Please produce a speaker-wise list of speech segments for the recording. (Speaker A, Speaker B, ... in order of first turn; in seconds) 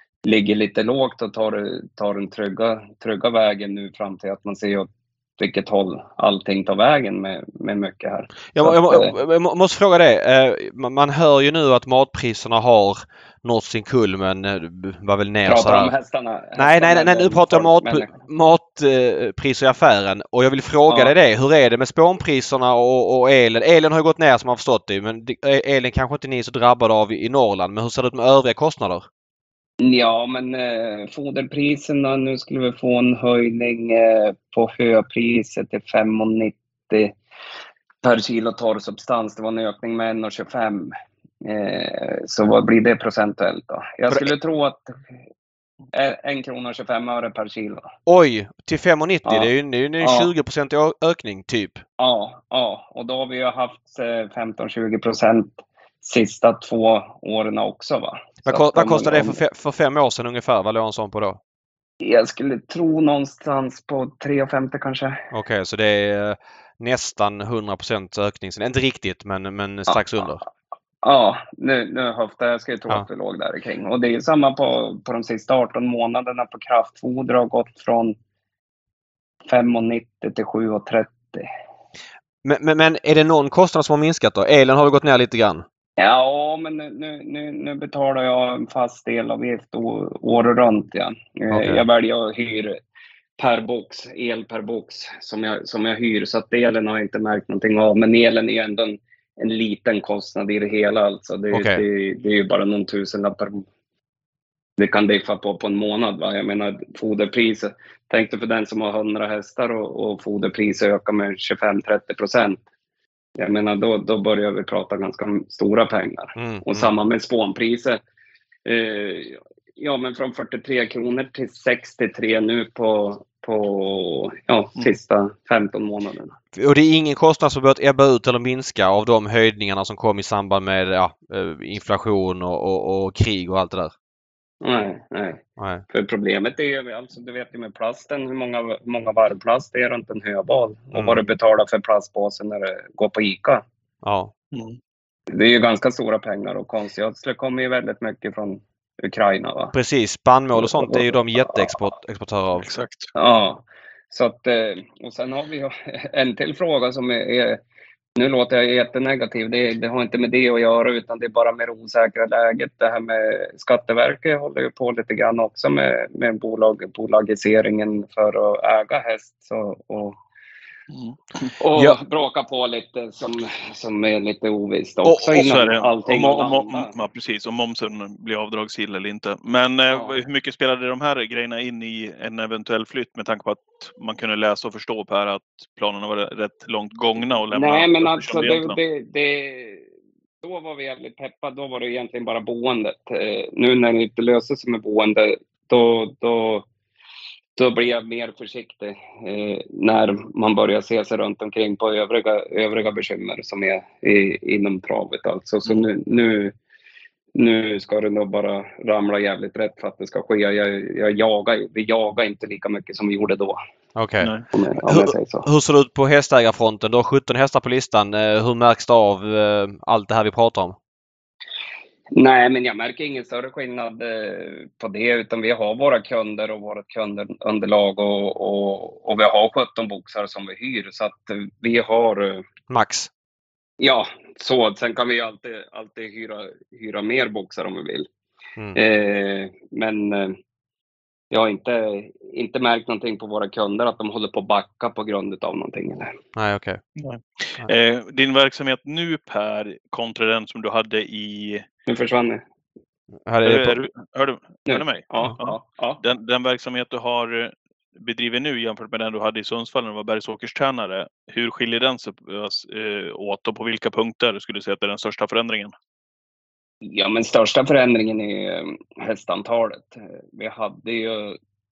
Speaker A: 0.2-9.1, 15.5-18.2, 20.9-21.1, 29.8-37.1, 38.0-40.9, 41.4-45.0, 45.9-47.9, 50.0-50.3, 52.0-59.4, 62.0-65.2, 69.9-70.3, 71.0-78.2, 79.5-81.5, 86.0-92.8, 93.4-103.6, 104.8-112.6, 113.4-118.0, 118.6-126.3, 134.6-143.6, 145.3-149.7, 150.5-151.8, 153.1-157.6, 158.2-170.2, 171.6-176.9, 179.9-180.2, 187.5-189.9, 190.4-196.7, 197.6-206.5, 207.3-213.6, 214.5-215.5, 222.1-232.4, 233.8-238.1, 238.7-240.4, 241.3-246.1, 251.9-252.4, 254.7-256.0, 266.8-271.4
Speaker B: 8.5-15.9, 16.6-29.1, 48.1-51.8, 58.5-61.4, 65.3-70.4, 82.4-85.7, 91.5-91.8, 101.5-101.8, 116.4-116.9, 126.5-133.9, 135.6-135.8, 140.9-141.3, 144.0-144.3, 149.7-152.7, 175.0-175.4, 213.9-214.3, 214.8-220.8, 232.7-233.1, 246.3-246.8, 253.2-253.8
Speaker C: 144.5-144.8, 152.6-153.1, 170.9-171.5, 175.3-188.8, 247.0-251.7, 253.4-265.7